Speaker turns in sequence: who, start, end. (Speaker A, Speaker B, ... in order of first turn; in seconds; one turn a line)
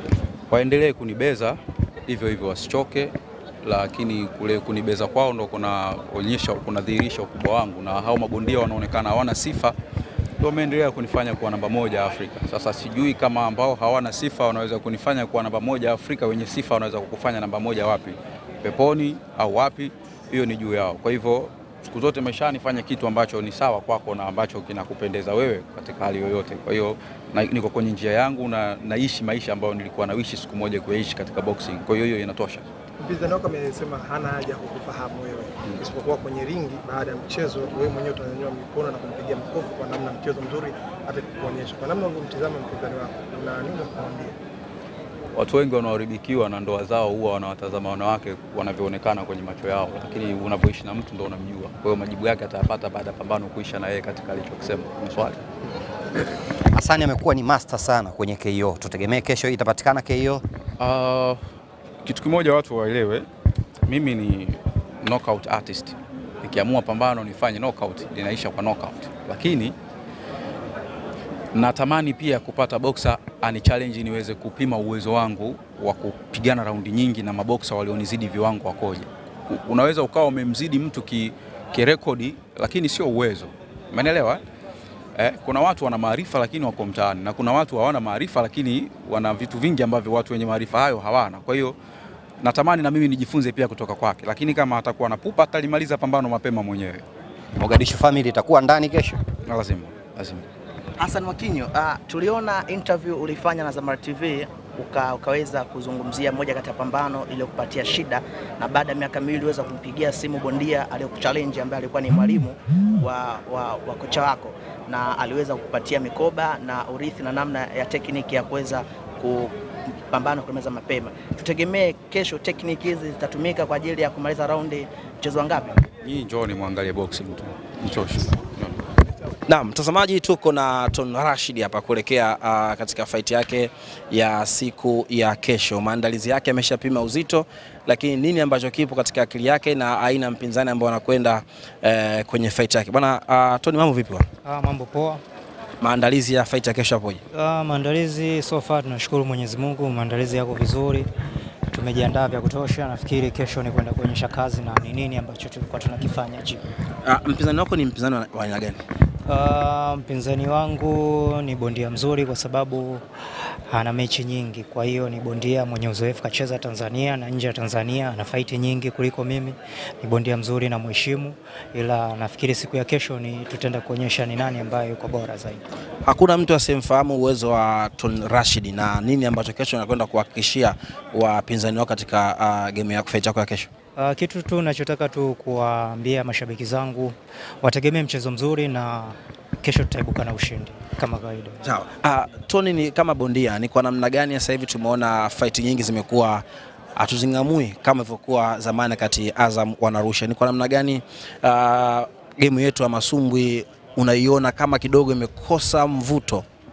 Speaker A: 0.5-9.7
Speaker A: 10.4-32.6
Speaker B: 33.0-44.3
Speaker A: 45.3-55.4
Speaker C: 56.7-60.4
Speaker A: 60.8-61.4
Speaker A: 62.0-63.3
Speaker A: 63.8-69.7
Speaker A: 71.5-84.4
Speaker A: 85.2-91.8
Speaker A: 92.4-97.0
Speaker C: 97.5-99.2
Speaker A: 99.5-100.4
Speaker D: 101.0-119.5
Speaker D: 120.1-125.8
Speaker A: 126.0-128.8
Speaker E: 129.5-144.2
Speaker F: 144.4-145.2
Speaker E: 145.8-147.2
Speaker F: 147.3-151.1
Speaker F: 151.7-156.6
Speaker E: 157.0-158.8
Speaker F: 159.2-163.0
Speaker F: 163.7-175.6
Speaker E: 176.1-183.7
Speaker F: 183.9-191.6
Speaker E: 191.6-196.4
Speaker E: 196.9-206.4